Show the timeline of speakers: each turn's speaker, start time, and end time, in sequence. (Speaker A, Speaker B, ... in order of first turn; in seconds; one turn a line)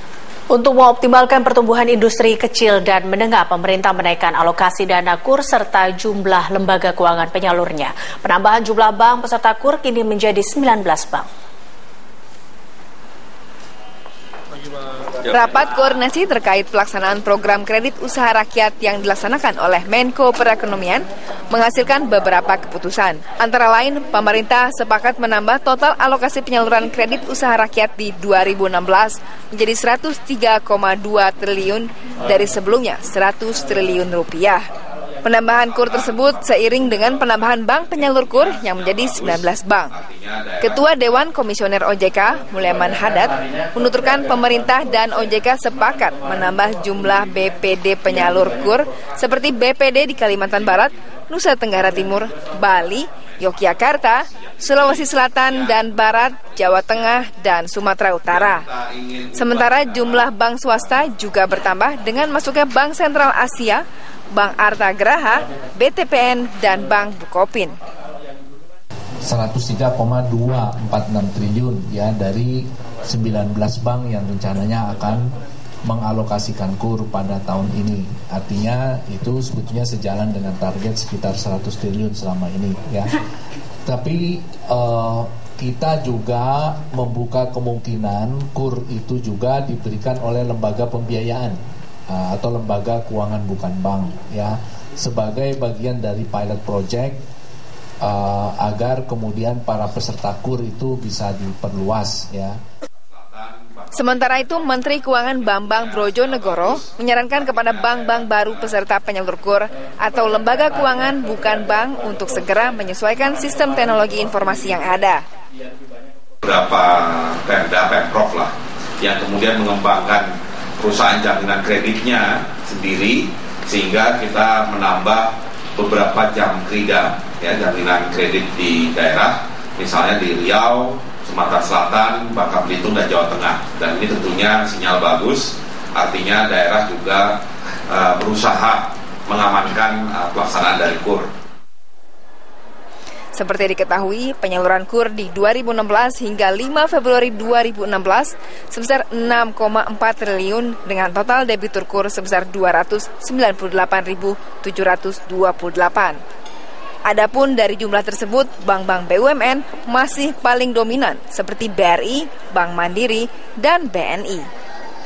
Speaker A: 0.5-11.2
Speaker B: 15.3-34.7
Speaker B: 35.2-40.0
Speaker C: 38.3-40.8
Speaker B: 40.6-58.7
Speaker C: 53.2-57.2
Speaker C: 58.3-60.3
Speaker B: 59.3-67.8
Speaker D: 69.2-83.2
Speaker D: 83.9-97.2
Speaker D: 98.0-102.6
Speaker C: 103.1-108.8
Speaker B: 103.9-115.2
Speaker C: 116.4-141.3
Speaker B: 143.3-156.2
Speaker B: 157.1-164.5